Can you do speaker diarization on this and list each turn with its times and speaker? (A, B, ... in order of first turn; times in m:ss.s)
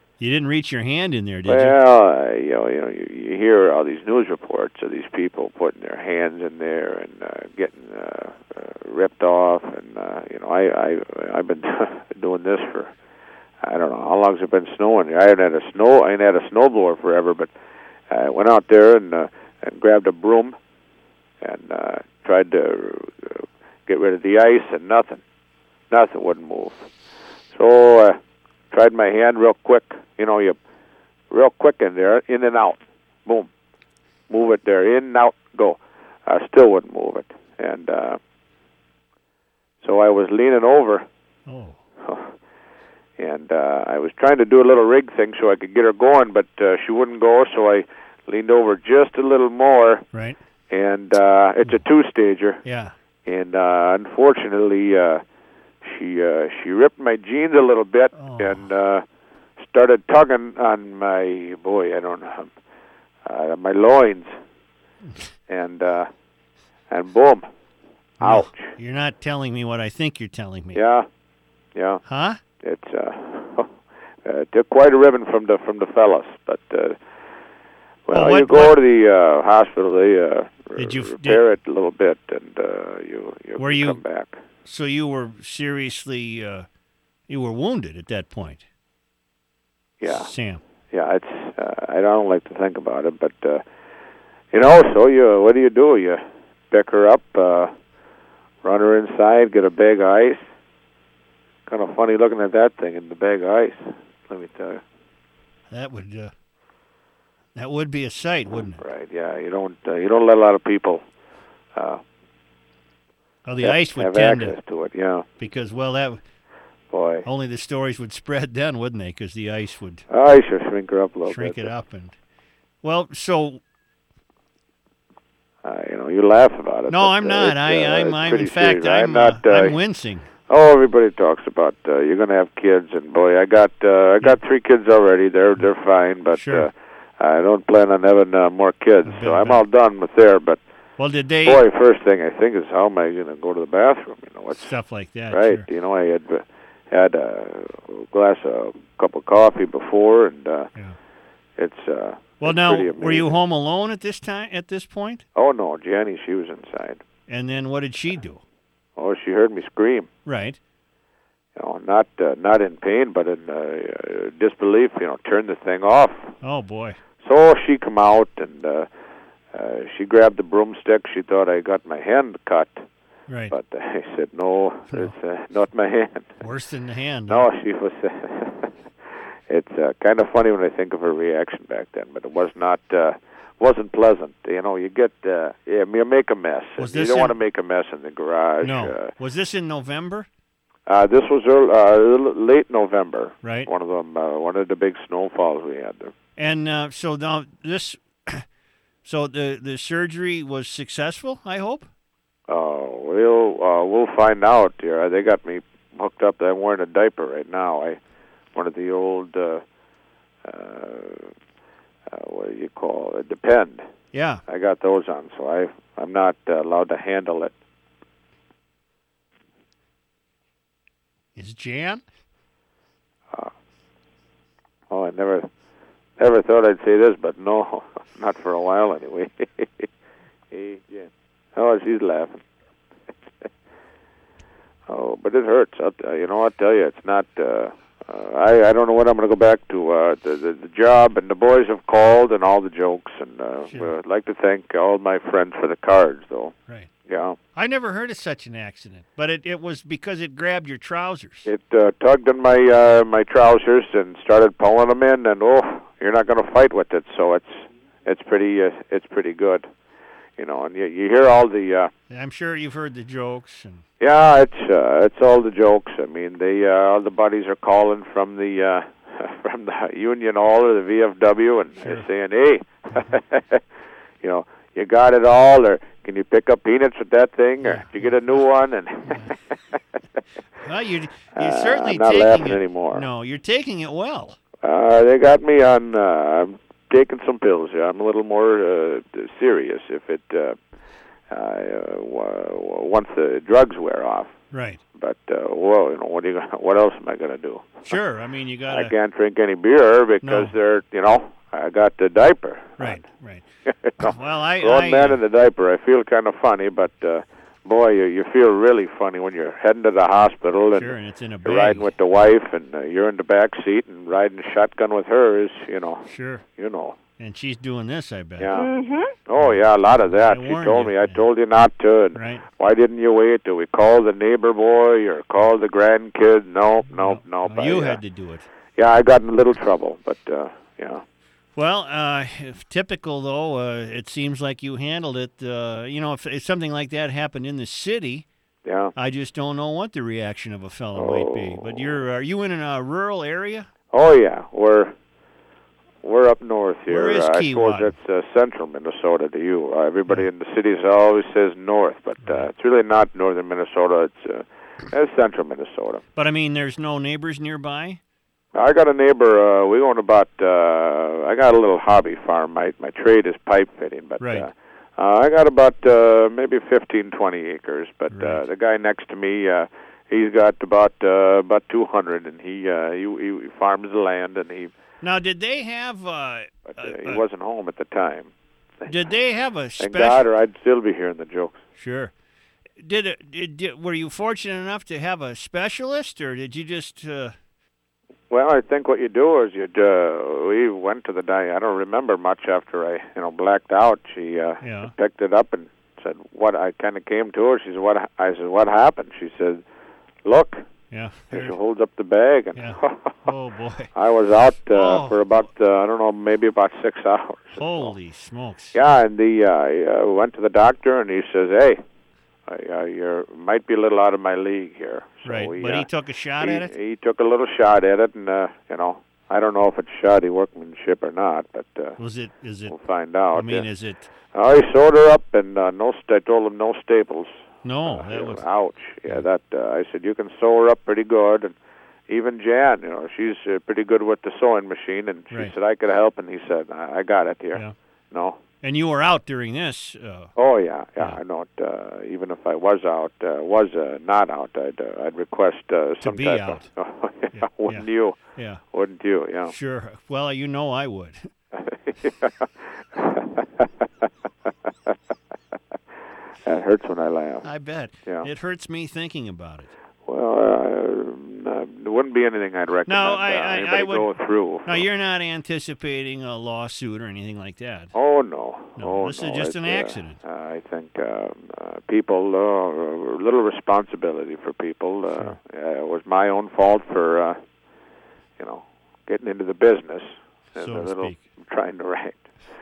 0:00.2-0:01.8 A
0:01.5-0:12.9 B
0:13.6-0:17.5 B
0:18.1-0:20.6 B
0:21.4-0:25.2 B
0:25.9-0:26.8 B
0:27.5-0:28.2 B
0:28.7-0:30.6 B
0:31.3-0:33.5 B
0:34.3-0:38.2 B
0:39.8-0:41.1 B
0:41.5-0:41.8 A
0:42.0-0:42.3 B
0:43.2-0:50.0 B
0:50.7-0:52.6 B
0:52.6-0:52.9 A
0:53.3-0:55.2 B
0:55.8-0:59.0 B
0:58.2-0:58.6 A
0:59.7-1:02.5 B
1:03.2-1:04.3 B
1:05.5-1:06.1 B
1:06.9-1:07.5 B
1:08.2-1:10.8 A
1:08.2-1:08.7 B
1:10.8-1:11.1 B
1:11.8-1:12.0 B
1:12.1-1:12.4 A
1:12.6-1:13.7 B
1:14.2-1:17.0 B
1:18.1-1:24.4 B
1:18.1-1:18.8 A
1:20.8-1:21.4 A
1:23.6-1:24.0 A
1:24.6-1:26.7 A
1:27.3-1:28.6 A
1:30.0-1:30.3 B
1:30.0-1:30.6 A
1:30.9-1:33.6 B
1:34.5-1:37.7 B
1:38.6-1:40.4 B
1:41.7-1:44.8 B
1:45.7-1:46.3 A
1:47.6-1:48.8 A
1:48.8-1:51.0 B
1:51.8-1:52.0 B
1:53.4-1:54.6 A
1:53.6-1:55.2 B
1:55.4-1:56.2 A
1:56.9-1:57.2 B
1:57.2-2:00.0 A
2:00.1-2:01.7 B
2:01.3-2:02.2 A
2:02.8-2:03.6 A
2:05.6-2:09.8 B
2:06.9-2:10.3 A
2:10.5-2:20.6 B
2:16.4-2:16.7 A
2:19.0-2:19.6 A
2:21.0-2:21.6 A
2:21.4-2:24.7 B
2:24.6-2:25.7 A
2:25.3-2:30.7 B
2:31.6-2:33.4 B
2:32.4-2:35.2 A
2:35.4-2:37.0 B
2:37.3-2:38.4 A
2:39.0-2:40.1 B
2:40.2-2:40.6 A
2:41.6-2:46.3 B
2:46.4-2:47.0 A
2:47.2-2:48.9 B
2:49.5-2:52.8 B
2:53.3-2:53.5 A
2:53.5-2:56.4 B
2:56.4-2:57.5 A
2:57.3-2:58.7 B
2:59.5-3:09.1 B
3:06.8-3:07.4 A
3:08.6-3:10.3 A
3:10.9-3:16.1 B
3:13.4-3:13.7 A
3:16.4-3:18.4 A
3:19.0-3:21.9 A
3:22.5-3:28.0 B
3:28.6-3:29.6 B
3:30.4-3:31.3 B
3:32.1-3:33.9 B
3:34.1-3:34.4 A
3:34.5-3:37.5 B
3:41.4-3:42.0 A
3:44.9-3:45.5 B
3:46.2-3:49.9 B
3:50.5-3:52.4 B
3:54.9-4:06.5 B
4:07.1-4:07.4 B
4:07.6-4:11.5 A
4:11.4-4:19.7 B
4:20.4-4:21.9 B
4:22.1-4:23.8 A
4:24.0-4:33.6 B
4:31.8-4:32.1 A
4:32.9-4:33.2 A
4:34.2-4:39.3 B
4:37.6-4:38.4 A
4:39.1-4:39.3 A
4:40.6-4:44.4 A
4:41.4-4:43.0 B
4:44.6-4:50.6 B
4:51.3-4:54.3 B
4:54.5-4:54.8 A
4:55.0-4:58.0 B
4:57.9-4:58.9 A
4:58.7-5:03.0 B
5:00.2-5:00.5 A
5:02.8-5:03.4 A
5:03.8-5:10.9 B
5:04.0-5:05.2 A
5:10.8-5:11.9 A
5:11.4-5:16.0 B
5:16.1-5:16.4 A
5:16.6-5:17.0 B
5:17.2-5:18.6 A
5:18.4-5:18.7 B
5:19.3-5:28.0 B
5:20.1-5:21.2 A
5:22.2-5:22.4 A
5:26.9-5:28.5 A
5:28.8-5:31.0 B
5:31.6-5:38.3 A
5:38.6-5:38.9 B
5:39.0-5:43.7 A
5:41.0-5:41.9 B
5:43.9-5:44.9 B
5:46.0-5:56.0 B
5:46.9-5:47.9 A
5:52.2-5:52.5 A
5:56.2-5:58.0 A
5:58.6-6:14.7 B
6:04.2-6:04.5 A
6:08.1-6:08.4 A
6:15.0-6:17.2 A
6:16.8-6:19.1 B
6:18.9-6:20.3 A
6:19.8-6:21.6 B
6:21.8-6:22.1 A
6:22.8-6:27.4 A
6:28.3-6:39.6 B
6:34.6-6:34.9 A
6:40.2-6:40.6 B
6:40.9-6:41.6 A
6:41.3-6:43.3 B
6:42.6-6:43.9 A
6:44.0-6:47.9 B
6:44.7-6:45.4 A
6:47.6-6:48.8 A
6:48.7-6:51.8 B
6:52.5-6:55.9 B
6:55.2-6:56.7 A
6:56.4-7:02.0 B
7:02.0-7:02.8 A
7:02.7-7:03.7 B
7:03.3-7:04.1 A
7:04.3-7:07.3 B
7:07.6-7:08.4 A
7:07.8-7:11.5 B
7:12.1-7:18.4 B
7:18.6-7:20.3 A
7:20.4-7:28.2 B
7:26.0-7:26.7 A
7:27.3-7:28.6 A
7:28.7-7:29.5 B
7:29.5-7:31.3 A
7:31.6-7:32.4 B
7:33.0-7:33.6 B
7:36.4-7:37.4 B
7:37.4-7:39.7 A
7:40.1-7:44.8 B
7:42.9-7:44.1 A
7:44.6-7:47.9 A
7:47.9-7:57.4 B
7:48.8-7:50.2 A
7:58.4-8:02.2 B
8:00.6-8:01.2 A